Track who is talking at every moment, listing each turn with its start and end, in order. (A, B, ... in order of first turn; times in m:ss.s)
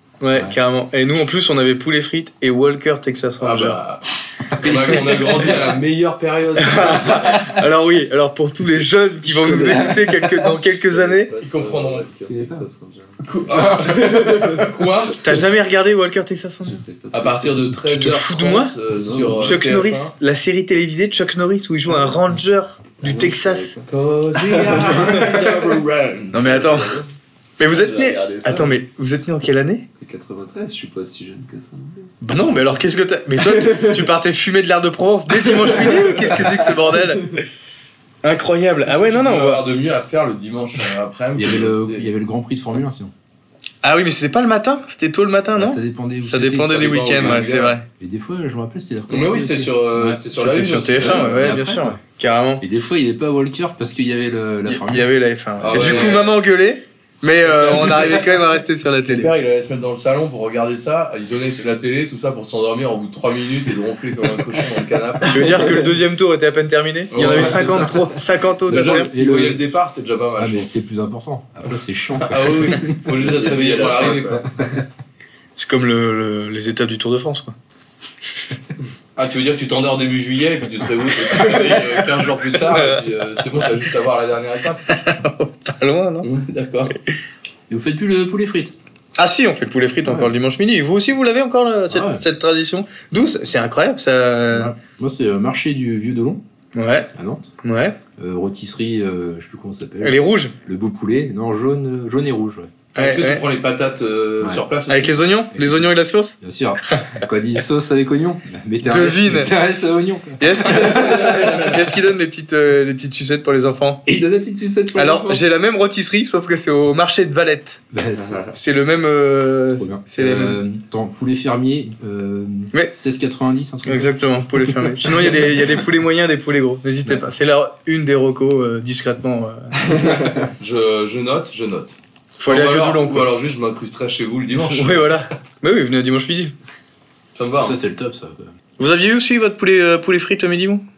0:00.2-0:03.8 A
0:03.4-0:07.5 B
0:04.6-0:05.3 A
0:06.6-0:11.3 A
0:09.3-0:10.1 C
0:10.9-0:14.7 C
0:11.4-0:12.0 B
0:12.3-0:12.6 D
0:13.2-0:15.2 B
0:15.2-0:16.8 A
0:16.6-0:17.7 C
0:17.1-0:20.1 B
0:17.9-0:18.7 A
0:18.9-0:19.6 C
0:19.4-0:23.7 A
0:23.0-0:23.9 C
0:23.9-0:26.8 B
0:24.4-0:25.4 C
0:26.3-0:27.0 A
0:26.5-0:27.1 C
0:27.6-0:29.9 A
0:27.7-0:28.8 C
0:30.0-0:32.1 C
0:32.2-0:37.4 A
0:33.4-0:34.1 C
0:35.4-0:36.4 C
0:38.2-0:39.6 A
0:38.8-0:42.1 B
0:41.4-0:43.1 D
0:43.8-0:47.8 A
0:45.5-0:47.4 D
0:46.7-0:47.8 B
0:48.0-0:50.1 D
0:49.1-0:51.6 B
0:50.1-0:52.6 A
0:51.0-0:52.0 D
0:52.6-0:55.1 D
0:54.7-0:59.3 A
0:55.6-0:56.4 B
0:55.7-0:56.2 D
0:57.4-0:58.4 B
0:59.0-1:05.8 B
1:05.2-1:09.1 A
1:07.1-1:10.7 B
1:07.3-1:07.8 D
1:08.7-1:09.6 D
1:10.4-1:13.1 D
1:12.2-1:14.5 B
1:13.1-1:14.7 C
1:15.6-1:17.5 A
1:19.2-1:24.8 B
1:21.3-1:23.0 A
1:24.9-1:26.3 A
1:26.2-1:26.9 B
1:27.7-1:28.7 D
1:29.2-1:34.7 A
1:30.0-1:30.3 D
1:31.9-1:32.2 D
1:34.5-1:36.4 D
1:36.7-1:37.1 A
1:37.1-1:37.5 D
1:37.6-1:38.0 A
1:38.2-1:42.7 D
1:40.0-1:40.5 A
1:42.9-1:43.4 A
1:43.0-1:45.3 B
1:44.9-1:46.4 A
1:45.5-1:51.2 D
1:48.8-1:49.5 A
1:50.4-1:54.0 A
1:50.8-1:51.7 B
1:54.0-1:55.4 D
1:54.9-1:57.8 A
1:57.9-1:58.5 D
1:58.5-2:00.6 A
1:59.7-2:05.6 D
2:03.8-2:10.4 A
2:10.6-2:15.3 B
2:12.4-2:13.3 A
2:14.7-2:16.5 A
2:17.3-2:17.8 B
2:17.6-2:18.5 D
2:18.8-2:20.8 A